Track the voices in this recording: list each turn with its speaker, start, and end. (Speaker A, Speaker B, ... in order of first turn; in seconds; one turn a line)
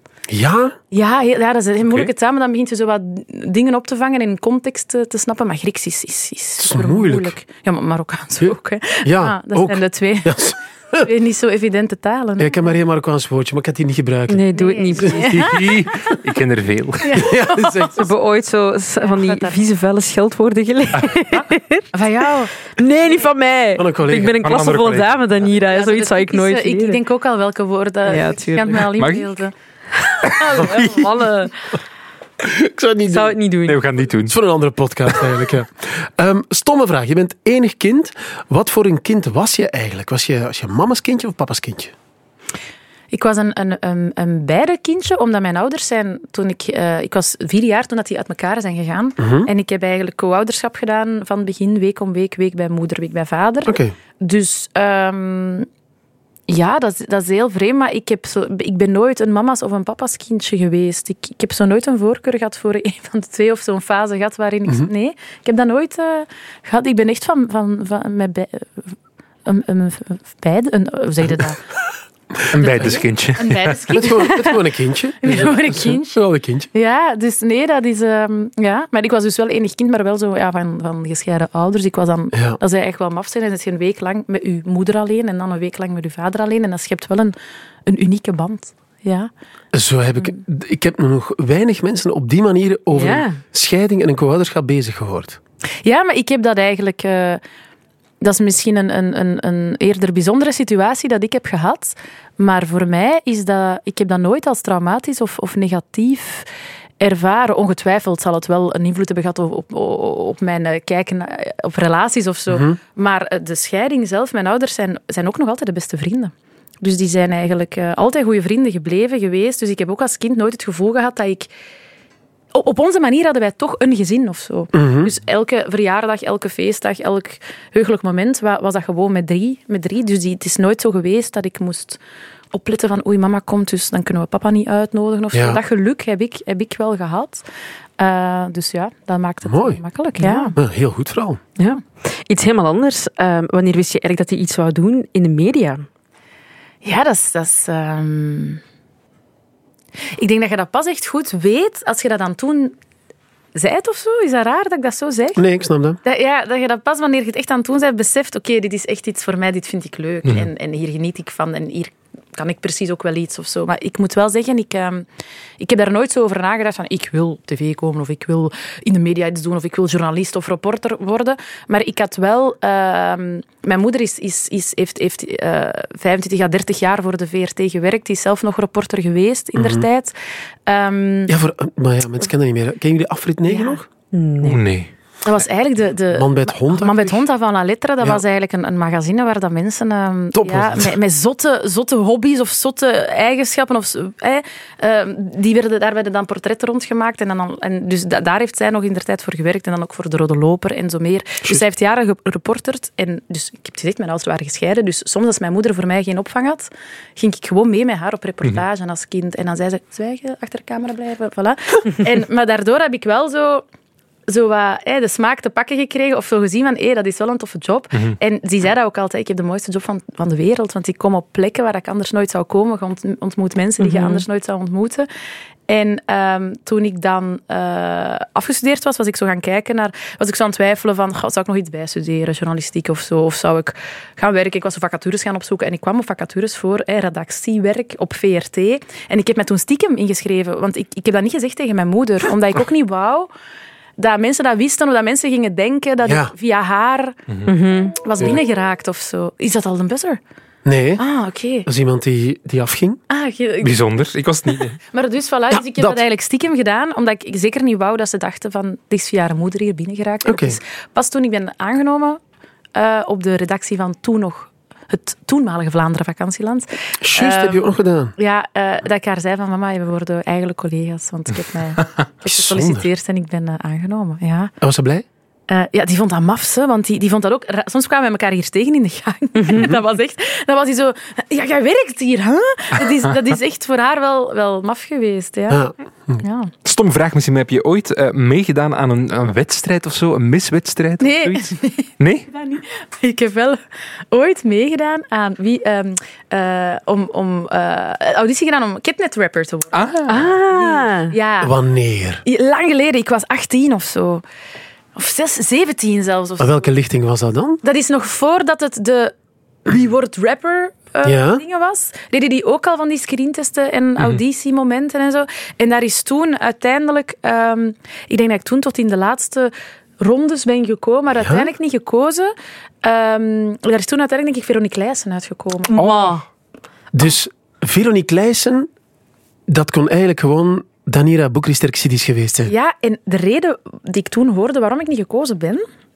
Speaker A: 0.3-0.8
Speaker B: 0.9-10.4
Speaker C: 1.8-2.1
Speaker A: 6.6-7.3
Speaker A: 8.4-11.1
Speaker B: 11.0-12.6
Speaker A: 12.4-14.4
Speaker D: 14.3-15.6
Speaker B: 14.5-15.9
Speaker C: 15.2-17.2
Speaker B: 17.0-18.0
Speaker A: 17.1-18.1
Speaker D: 18.0-21.9
Speaker B: 19.0-19.6
Speaker B: 21.9-22.6
Speaker D: 22.7-27.0
Speaker A: 23.8-24.4
Speaker C: 24.4-25.2
Speaker B: 25.7-29.5
Speaker D: 28.1-28.9
Speaker C: 29.0-29.3
Speaker D: 30.2-31.5
Speaker B: 30.5-30.8
Speaker A: 32.4-33.4
Speaker D: 33.1-33.8
Speaker C: 33.6-34.4
Speaker A: 34.2-41.9
Speaker B: 43.1-55.7
Speaker A: 49.2-49.5
Speaker A: 53.6-53.9
Speaker B: 56.5-68.9
Speaker B: 69.4-71.6
Speaker C: 72.5-73.9
Speaker B: 72.5-74.7
Speaker A: 73.9-76.7
Speaker B: 75.2-76.1
Speaker B: 76.7-87.3
Speaker A: 82.3-82.6
Speaker B: 87.8-89.3
Speaker A: 89.7-95.4
Speaker D: 92.9-93.4
Speaker B: 95.8-97.4
Speaker B: 98.2-106.5
Speaker B: 107.0-121.5
Speaker A: 112.5-112.8
Speaker B: 122.5-132.0
Speaker A: 124.7-125.1
Speaker B: 132.5-137.4
Speaker A: 135.3-135.6
Speaker B: 138.0-140.5
Speaker A: 139.4-139.8
Speaker D: 140.2-140.5
Speaker A: 140.5-141.4
Speaker D: 141.6-145.8
Speaker B: 146.8-148.6
Speaker B: 150.2-152.7
Speaker B: 153.5-155.4
Speaker A: 155.3-156.0
Speaker B: 156.0-165.1
Speaker B: 165.6-180.1
Speaker A: 179.5-179.8
Speaker B: 180.7-181.3
Speaker A: 181.3-183.8
Speaker B: 183.5-183.8
Speaker D: 184.1-184.6
Speaker C: 184.4-184.9
Speaker B: 185.2-213.6
Speaker A: 186.1-187.2
Speaker A: 190.3-190.9
Speaker B: 214.3-225.1
Speaker D: 223.8-224.2
Speaker B: 225.7-243.3
Speaker B: 244.0-247.2
Speaker A: 246.0-246.3
Speaker D: 247.4-248.0
Speaker B: 248.0-250.2
Speaker A: 250.6-251.0
Speaker B: 251.0-251.7
Speaker A: 251.6-253.0
Speaker B: 253.1-253.8
Speaker C: 253.6-254.8
Speaker B: 254.9-262.2
Speaker A: 255.5-256.0
Speaker A: 260.2-260.6
Speaker B: 262.7-274.5
Speaker A: 267.0-268.1
Speaker A: 272.2-272.9
Speaker A: 274.6-275.1
Speaker B: 275.5-285.6
Speaker D: 279.4-279.7
Speaker A: 279.5-279.8
Speaker A: 285.5-286.2
Speaker B: 286.2-286.5
Speaker C: 286.6-292.3
Speaker B: 291.0-301.5
Speaker C: 299.7-300.1
Speaker D: 300.1-301.1
Speaker A: 301.4-302.2
Speaker B: 302.2-304.2
Speaker B: 304.9-306.7
Speaker A: 306.4-307.6
Speaker B: 307.6-309.1
Speaker B: 309.6-326.2
Speaker A: 311.0-311.4
Speaker A: 321.2-321.5
Speaker C: 325.8-326.1
Speaker D: 325.8-326.2
Speaker A: 326.9-328.7
Speaker A: 329.5-332.5
Speaker B: 332.4-335.6